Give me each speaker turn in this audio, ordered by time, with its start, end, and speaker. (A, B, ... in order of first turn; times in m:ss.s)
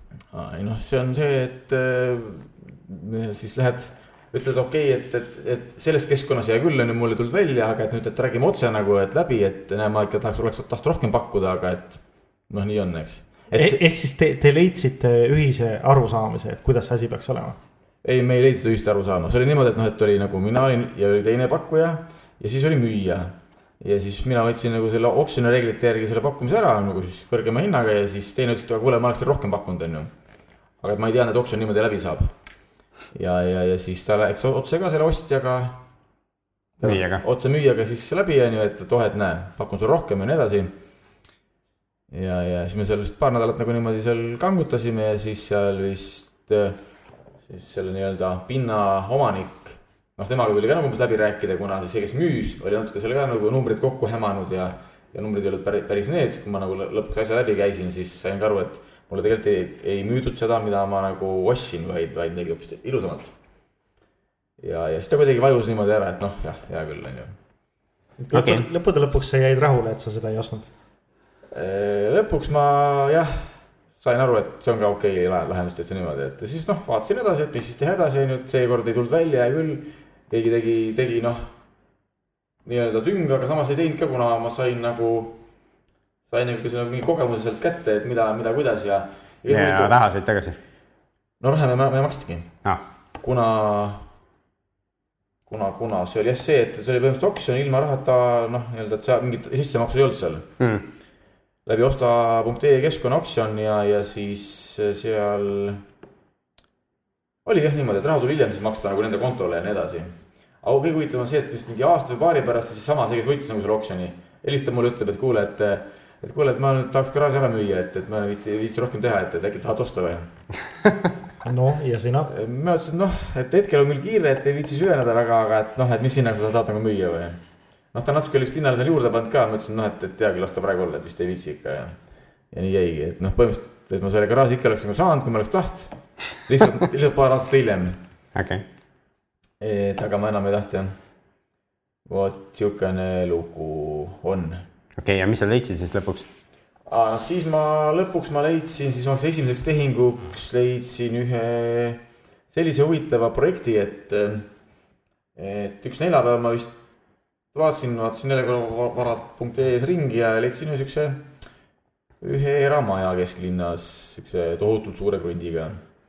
0:00.3-0:13.8 A
0:13.6-0:17.6 B
0:18.0-0:30.1 A
0:30.8-0:32.3 A
0:33.1-0:35.8 A
0:36.8-0:40.8 A
0:36.8-0:37.2 C
0:42.1-0:46.8 A
0:47.5-1:03.3 A
1:04.6-1:07.4 A
1:08.2-1:10.7 B
1:08.3-1:08.6 C
1:11.5-1:13.5 A
1:14.0-1:21.5 A
1:22.6-1:25.4 A
1:26.3-1:30.0 A
1:29.5-1:30.6 C
1:31.4-1:32.5 A
1:33.2-1:34.1 A
1:35.5-1:40.5 A
1:40.6-1:40.8 C
1:41.7-1:45.8 A
1:47.4-2:00.3 A
2:01.4-2:02.3 B
2:02.3-2:07.4 A
2:07.9-2:12.0 A
2:12.5-2:18.0 A
2:18.4-2:18.6 C
2:19.6-2:21.0 A
2:22.1-2:24.6 A
2:25.0-2:26.3 C
2:26.9-2:34.5 A
2:35.4-2:36.8 A
2:37.5-2:41.3 A
2:42.2-2:45.8 A